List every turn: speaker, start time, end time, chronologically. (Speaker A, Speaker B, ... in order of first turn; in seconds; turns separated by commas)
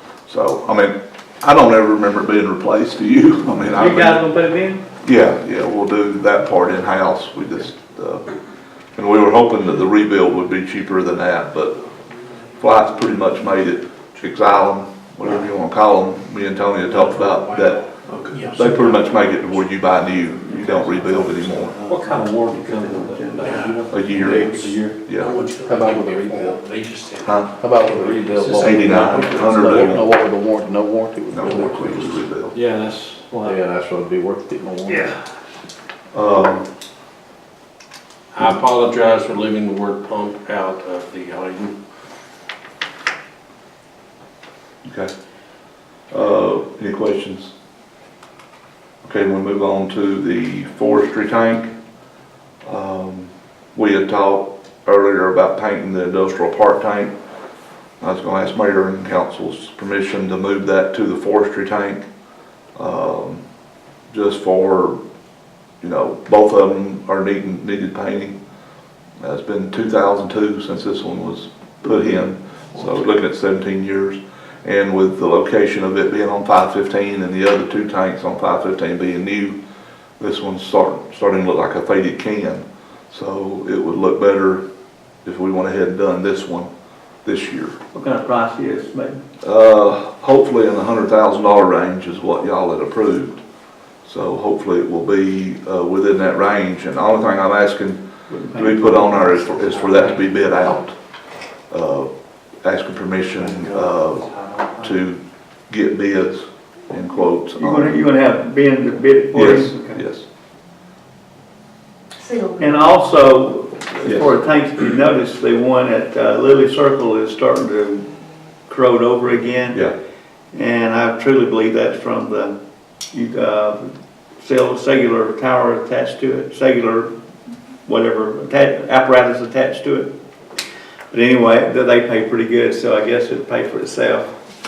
Speaker A: 0.3-4.2, Speaker B: 3.7-4.8, Speaker A: 5.0-8.3, Speaker A: 8.9-11.7, Speaker A: 12.6-17.8, Speaker C: 16.9-19.1, Speaker B: 18.1-18.5, Speaker A: 18.5-21.7, Speaker B: 21.5-23.7, Speaker D: 21.9-25.0, Speaker C: 21.9-22.2, Speaker C: 23.4-23.8, Speaker A: 23.9-25.3, Speaker C: 25.2-27.4, Speaker E: 25.6-26.7, Speaker A: 27.2-27.5, Speaker E: 27.6-32.2, Speaker D: 27.9-29.3, Speaker C: 28.4-29.5, Speaker A: 28.6-30.1, Speaker A: 31.3-32.6, Speaker D: 32.5-33.5, Speaker E: 33.3-35.1, Speaker A: 36.1-36.6, Speaker C: 38.3-41.7, Speaker A: 44.8-45.1, Speaker A: 46.1-47.5, Speaker A: 49.0-51.7, Speaker A: 52.6-57.1, Speaker A: 58.0-62.0, Speaker A: 62.8-63.4, Speaker A: 64.1-65.0, Speaker A: 65.8-68.4, Speaker A: 69.2-79.6, Speaker A: 80.2-84.6, Speaker A: 85.2-86.7, Speaker A: 87.2-87.8, Speaker B: 87.9-89.2, Speaker A: 89.4-93.4, Speaker A: 94.0-98.0, Speaker B: 98.3-100.2, Speaker A: 98.5-101.0, Speaker A: 101.7-102.1, Speaker A: 102.6-104.3, Speaker D: 103.5-104.9, Speaker A: 104.8-108.0, Speaker B: 107.6-110.0, Speaker A: 109.3-110.2, Speaker B: 112.6-118.1, Speaker B: 118.7-119.8, Speaker B: 120.5-122.6, Speaker B: 123.1-127.1, Speaker B: 127.8-130.1, Speaker B: 131.1-134.3